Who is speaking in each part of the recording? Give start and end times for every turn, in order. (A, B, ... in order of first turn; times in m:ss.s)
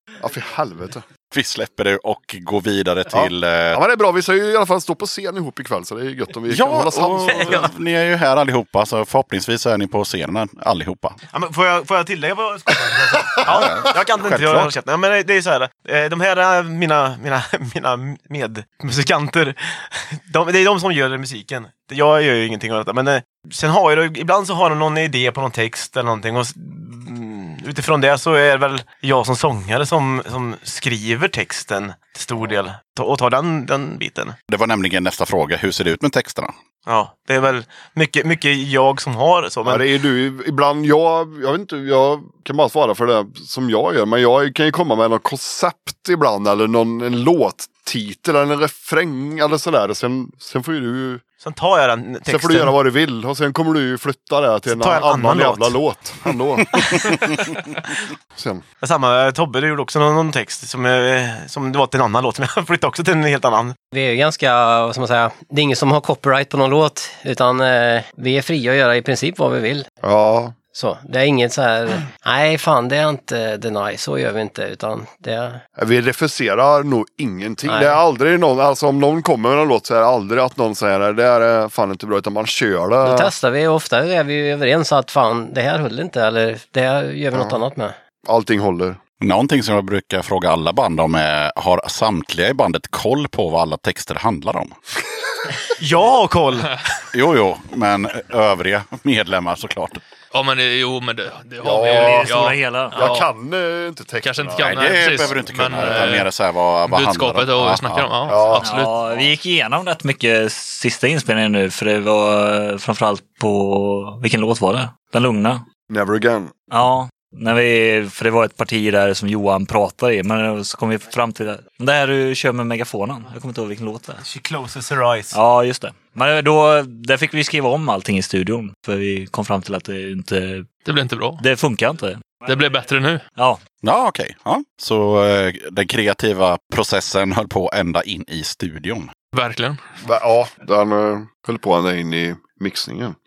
0:00.2-0:01.0 A
0:01.3-0:03.8 B
0:03.1-0:07.7 A
0:06.5-0:11.2 B
0:07.3-0:07.7 C
0:11.3-0:34.4 C
0:12.8-0:13.4 A
0:13.5-0:14.7 B
0:34.5-0:36.6 B
0:36.9-0:39.9 C
0:39.6-0:51.2 A
0:51.4-0:52.8 C
0:52.3-0:57.2 A
0:54.7-0:55.8 C
0:58.3-0:58.6 A
0:58.8-1:03.8 C
1:03.9-1:09.9 D
1:10.0-1:10.5 A
1:10.7-1:15.6 D
1:15.8-1:23.3 A
1:17.7-1:18.0 D
1:23.0-1:28.0 D
1:27.3-1:27.6 A
1:28.2-1:29.0 A
1:29.2-1:34.8 B
1:35.8-1:36.7 C
1:37.1-1:40.0 B
1:40.3-1:43.3 E
1:41.6-1:42.3 A
1:41.8-1:43.0 F
1:42.9-1:46.1 A
1:44.2-1:46.3 E
1:44.6-1:48.1 B
1:46.8-1:49.0 E
1:48.3-1:48.7 A
1:48.6-1:55.6 F
1:55.9-1:56.5 A
1:56.7-2:04.2 F
2:04.2-2:05.4 C
2:05.3-2:10.7 F
2:10.8-2:11.4 E
2:11.4-2:12.3 F
2:12.4-2:13.2 E
2:13.8-2:19.1 B
2:19.3-2:19.8 E
2:20.0-2:23.2 A